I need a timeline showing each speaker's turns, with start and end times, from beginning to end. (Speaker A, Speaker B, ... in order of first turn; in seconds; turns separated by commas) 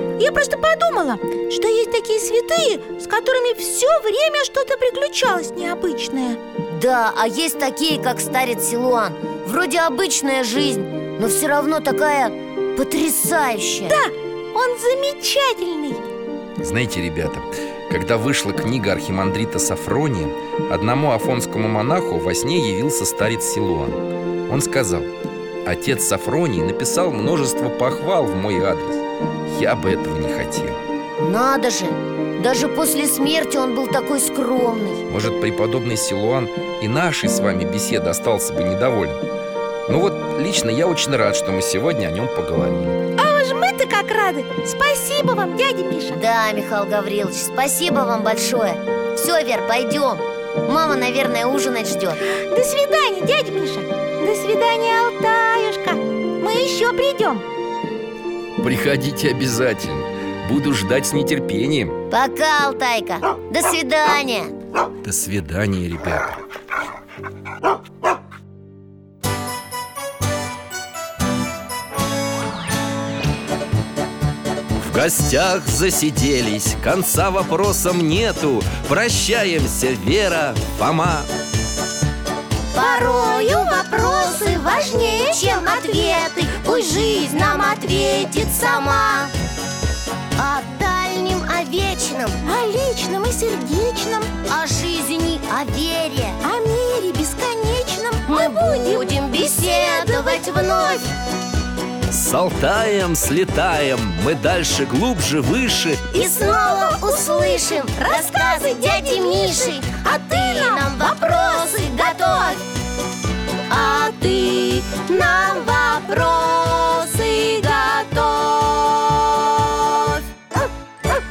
Speaker A: 0.2-6.4, Speaker B: 6.7-14.0, Speaker A: 13.9-16.0, Speaker C: 16.6-25.1, Speaker C: 25.6-30.8, Speaker B: 31.2-35.0, Speaker C: 35.1-39.2, Speaker C: 39.9-43.0, Speaker A: 43.2-46.2, Speaker B: 46.1-52.2, Speaker A: 52.2-57.4, Speaker C: 58.6-62.0, Speaker B: 62.1-64.5, Speaker C: 65.0-66.4, Speaker C: 74.7-81.3, Speaker B: 82.7-89.3, Speaker A: 82.8-87.3, Speaker B: 90.4-92.4, Speaker A: 92.4-94.3, Speaker B: 94.5-96.4, Speaker A: 96.4-100.6, Speaker B: 98.3-101.1, Speaker C: 102.1-106.1, Speaker B: 106.1-112.6, Speaker A: 106.1-112.5, Speaker B: 113.7-120.2